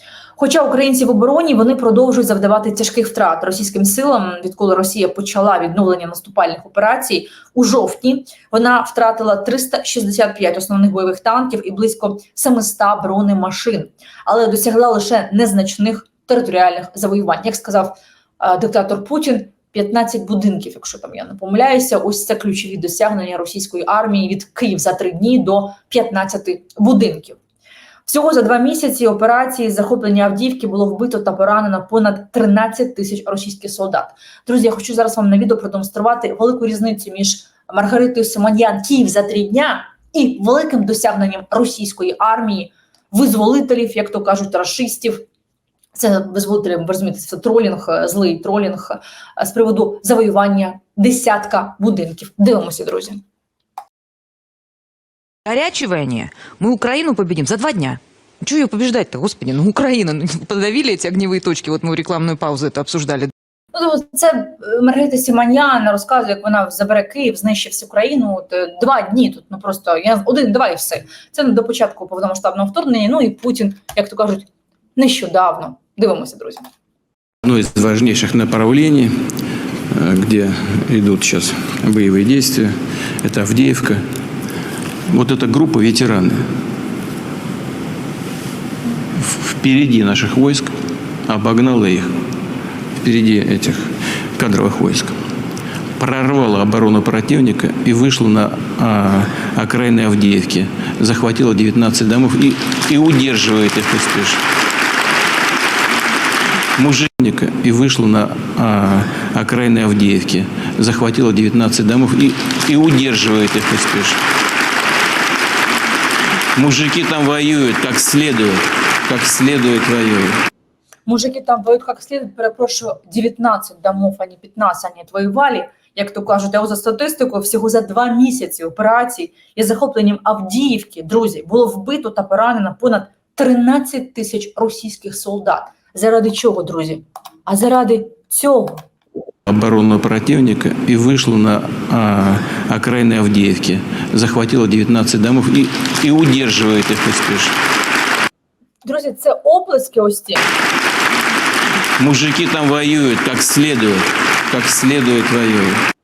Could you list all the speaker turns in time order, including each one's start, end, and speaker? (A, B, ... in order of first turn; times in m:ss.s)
0:00.4-0:27.4 A
0:28.1-0:45.2 A
0:45.9-0:53.2 A
0:55.5-1:03.3 B
1:03.7-1:16.6 A
1:17.4-1:19.1 C
1:20.0-1:24.0 C
1:25.1-1:26.4 C
1:29.2-1:30.7 C
1:31.3-1:32.1 C
1:33.0-1:35.2 C
1:36.0-1:44.4 C
1:46.8-1:54.2 C
1:56.6-2:00.4 C
2:01.1-2:18.8 A
2:19.5-2:27.5 C
2:28.8-2:30.5 A
2:32.0-2:35.8 C